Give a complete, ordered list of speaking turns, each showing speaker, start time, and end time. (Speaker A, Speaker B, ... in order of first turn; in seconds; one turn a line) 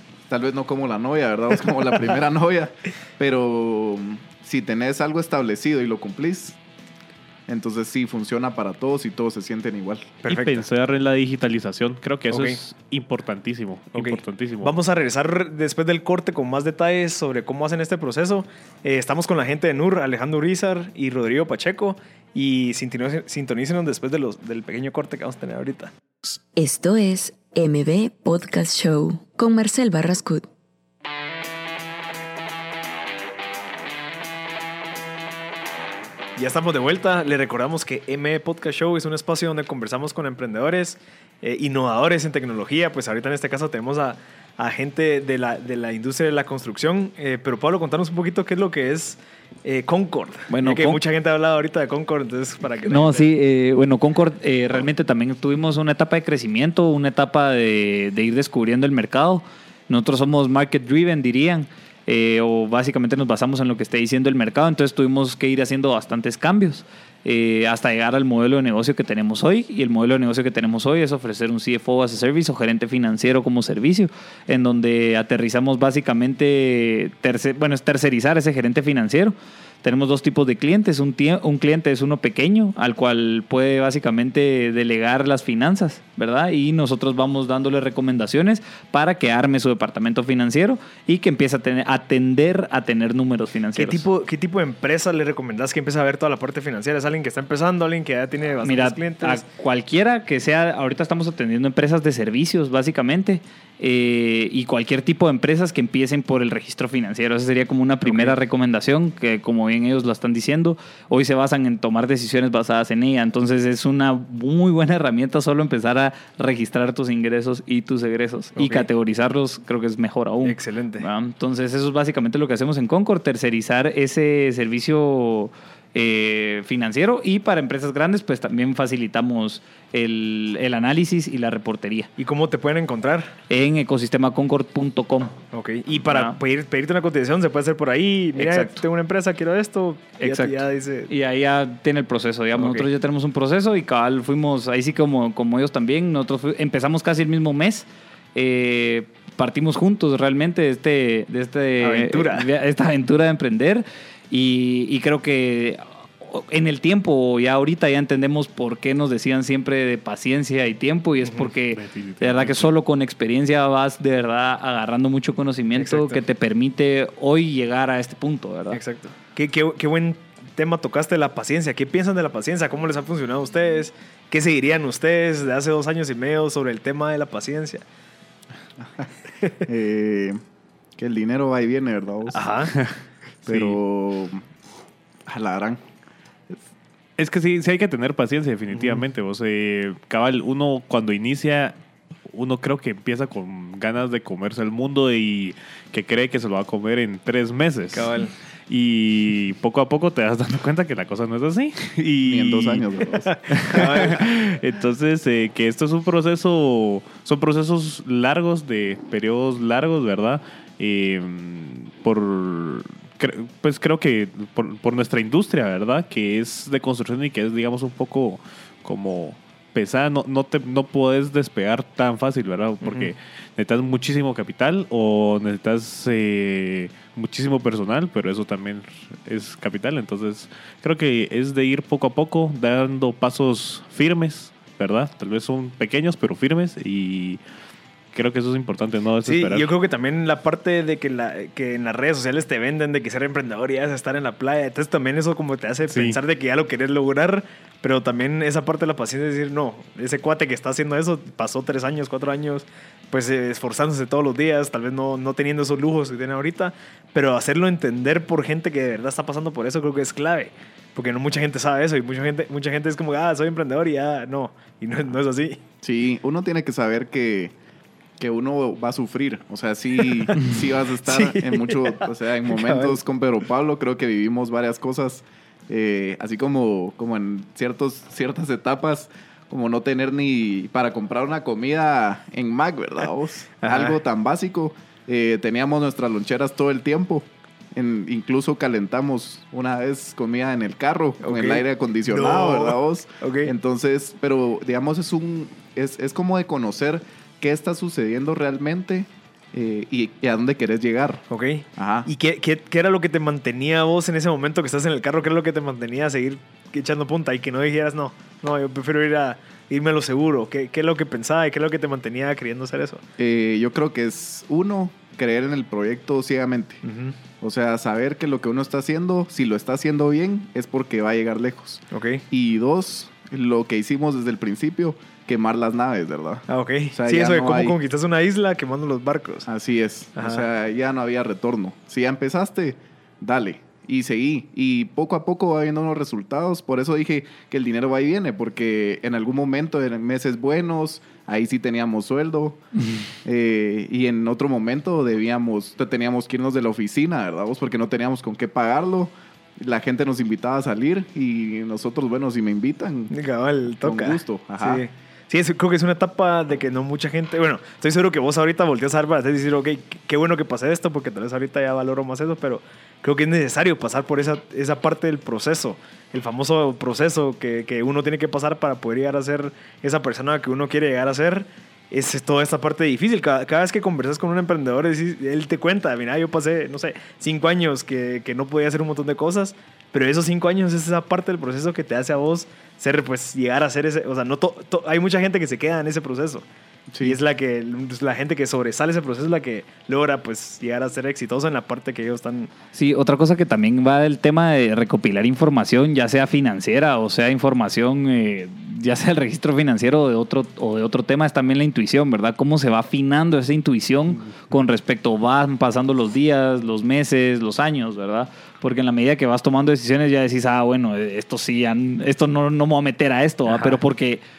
Speaker A: 0.3-6.6
Speaker A: 7.5-10.2
Speaker B: 10.2-10.6
Speaker C: 10.2-14.8
Speaker B: 12.3-12.6
Speaker B: 13.9-25.9
Speaker D: 26.5-30.4
Speaker B: 36.4-53.3
Speaker E: 50.5-51.0
Speaker E: 52.9-94.0
Speaker B: 93.8-99.4
Speaker E: 98.6-132.1
Speaker B: 108.0-108.3
Speaker B: 118.5-118.8
Speaker B: 120.4-121.0
Speaker B: 132.2-133.3
Speaker E: 133.5-135.3
Speaker B: 135.5-141.1
Speaker E: 136.0-136.3
Speaker E: 138.3-138.8
Speaker E: 140.2-168.8
Speaker B: 142.6-142.9
Speaker B: 151.8-152.5
Speaker B: 161.2-161.5
Speaker C: 161.7-162.8
Speaker B: 165.8-166.2
Speaker B: 168.7-177.8
Speaker A: 179.6-180.4
Speaker A: 181.0-182.5
Speaker B: 182.3-182.7
Speaker C: 182.7-183.8
Speaker A: 183.4-184.4
Speaker A: 185.3-185.8
Speaker C: 187.2-191.7
Speaker C: 192.3-202.8
Speaker B: 197.9-198.3
Speaker A: 202.2-204.1
Speaker B: 203.1-204.2
Speaker C: 203.5-237.4
Speaker B: 222.8-223.1
Speaker C: 238.1-239.7
Speaker B: 239.2-265.6
Speaker C: 245.9-246.2
Speaker A: 265.8-267.5
Speaker A: 268.2-301.2
Speaker B: 271.0-273.0
Speaker B: 283.6-284.0
Speaker B: 291.2-293.5
Speaker B: 301.3-313.0
Speaker A: 301.8-302.1
Speaker A: 313.2-316.8
Speaker B: 316.8-317.2
Speaker A: 317.4-327.8
Speaker B: 321.9-322.2
Speaker B: 326.5-329.5
Speaker A: 329.5-342.6
Speaker B: 330.1-330.4
Speaker A: 343.2-353.1
Speaker B: 353.1-386.4
Speaker A: 353.8-354.8
Speaker A: 386.9-387.2
Speaker B: 387.0-392.5
Speaker E: 392.7-414.2
Speaker B: 413.5-413.8